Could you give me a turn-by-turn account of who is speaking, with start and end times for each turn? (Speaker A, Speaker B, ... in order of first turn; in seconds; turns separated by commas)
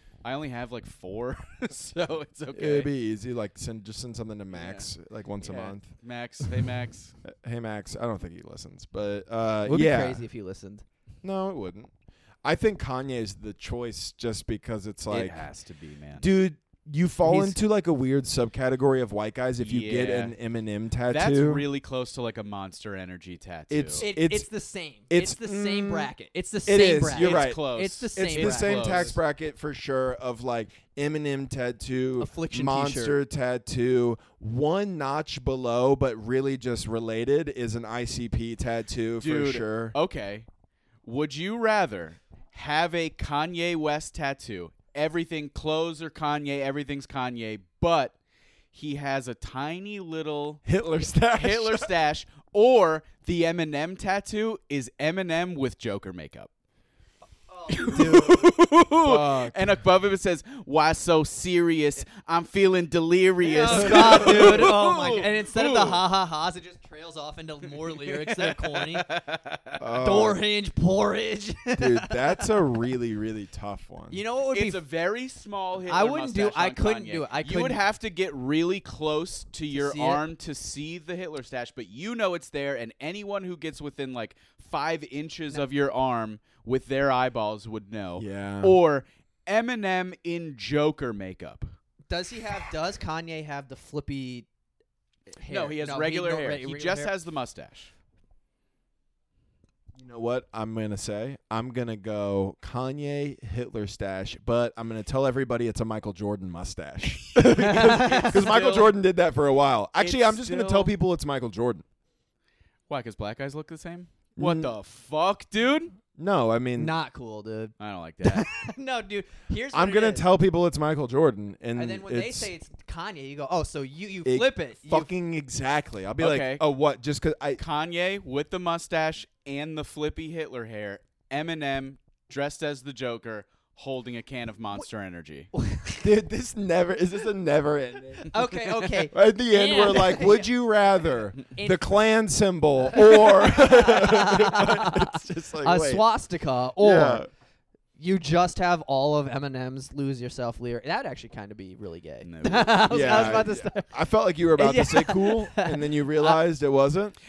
Speaker A: 0.2-2.9, Speaker B: 2.5-5.9, Speaker A: 4.5-7.2, Speaker B: 7.2-10.2, Speaker C: 9.7-10.8, Speaker B: 11.2-11.9, Speaker B: 12.4-15.4, Speaker A: 15.1-16.2, Speaker B: 16.2-21.6, Speaker C: 17.2-17.6, Speaker A: 19.6-20.3, Speaker A: 21.1-24.1, Speaker B: 23.7-24.5, Speaker C: 24.0-29.1, Speaker B: 25.1-26.1, Speaker B: 26.6-40.0, Speaker A: 27.1-29.1, Speaker C: 32.2-33.2, Speaker A: 39.2-40.5, Speaker A: 41.0-48.1, Speaker A: 48.7-50.6, Speaker B: 50.6-51.9, Speaker A: 51.3-56.5, Speaker C: 57.5-58.5, Speaker A: 57.7-66.0, Speaker B: 59.0-59.8, Speaker C: 63.4-69.1, Speaker B: 63.7-64.7, Speaker A: 68.0-69.8, Speaker B: 69.8-70.4, Speaker C: 70.0-72.5, Speaker B: 71.8-74.2, Speaker C: 74.1-74.8, Speaker A: 74.5-91.7, Speaker C: 75.8-77.8, Speaker C: 79.7-80.2, Speaker B: 88.2-88.8, Speaker C: 92.1-94.5, Speaker C: 95.3-97.1, Speaker A: 95.5-97.9, Speaker B: 100.0-111.8, Speaker C: 107.4-108.6, Speaker A: 107.6-108.9, Speaker A: 110.0-110.9, Speaker A: 112.9-116.0, Speaker B: 114.4-114.7, Speaker B: 116.1-116.9, Speaker C: 116.8-120.3, Speaker A: 117.8-118.5, Speaker B: 119.7-122.5, Speaker C: 121.8-125.1, Speaker B: 124.2-127.6, Speaker A: 126.2-126.6, Speaker A: 127.6-135.5, Speaker C: 135.5-136.1, Speaker B: 136.0-138.3, Speaker C: 138.3-140.5, Speaker B: 139.1-146.0, Speaker C: 141.5-141.8, Speaker C: 142.9-147.3, Speaker B: 146.8-147.3, Speaker C: 148.0-153.9, Speaker A: 152.2-153.5, Speaker B: 152.9-157.2, Speaker C: 154.6-156.4